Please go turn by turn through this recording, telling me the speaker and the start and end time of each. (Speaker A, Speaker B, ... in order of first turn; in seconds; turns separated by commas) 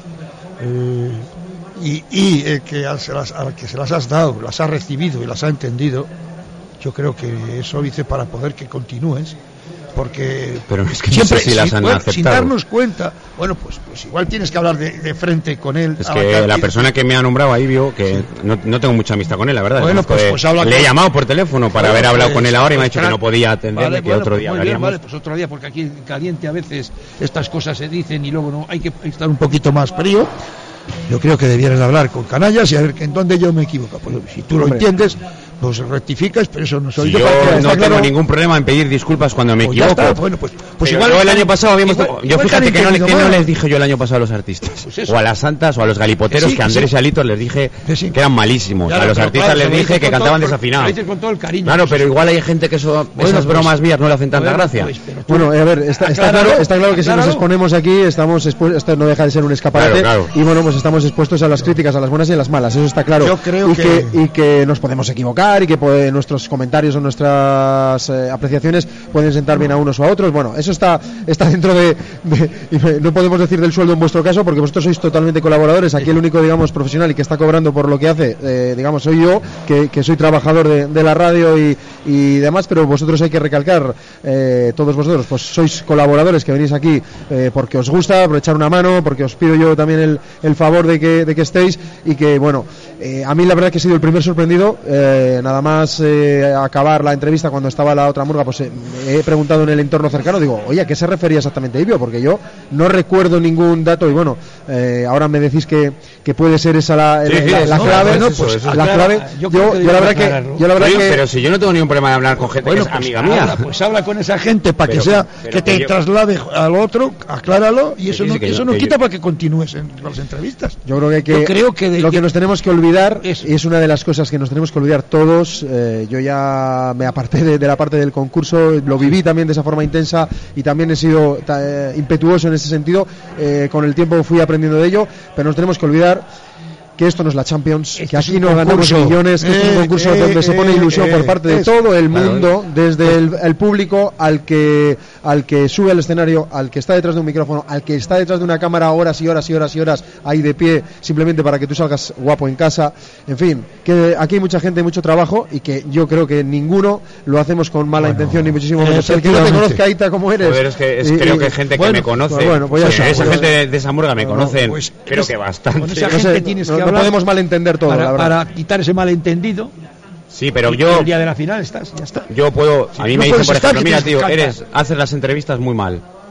Speaker A: 0.6-6.1, Speaker A: 6.8-9.3, Speaker A: 9.9-16.9, Speaker B: 10.7-12.5, Speaker B: 16.0-25.0, Speaker A: 19.8-21.0, Speaker A: 21.7-23.2, Speaker A: 23.7-30.3, Speaker A: 31.1-38.1, Speaker C: 34.6-34.8, Speaker B: 37.0-40.2, Speaker C: 37.2-38.1, Speaker A: 39.6-43.5, Speaker B: 40.8-51.0, Speaker A: 44.8-45.1, Speaker A: 46.3-46.9, Speaker A: 47.9-48.2, Speaker A: 48.8-52.2, Speaker B: 51.6-54.9, Speaker A: 53.1-53.8, Speaker A: 54.3-57.4, Speaker C: 55.3-111.2, Speaker B: 59.7-60.3, Speaker A: 63.2-64.1, Speaker B: 107.2-109.1, Speaker A: 107.4-111.0, Speaker B: 110.7-113.7, Speaker A: 112.5-120.8, Speaker B: 114.8-115.9, Speaker B: 118.1-118.9, Speaker C: 120.8-136.2, Speaker A: 121.3-122.2, Speaker C: 137.0-163.5, Speaker A: 138.0-141.7, Speaker A: 158.0-159.8, Speaker B: 160.4-166.2, Speaker A: 161.7-163.5, Speaker C: 164.2-164.6, Speaker A: 164.3-167.1, Speaker C: 166.0-168.3, Speaker A: 167.9-169.7, Speaker B: 170.3-171.1, Speaker A: 170.6-172.3, Speaker B: 172.3-176.0, Speaker A: 172.9-174.6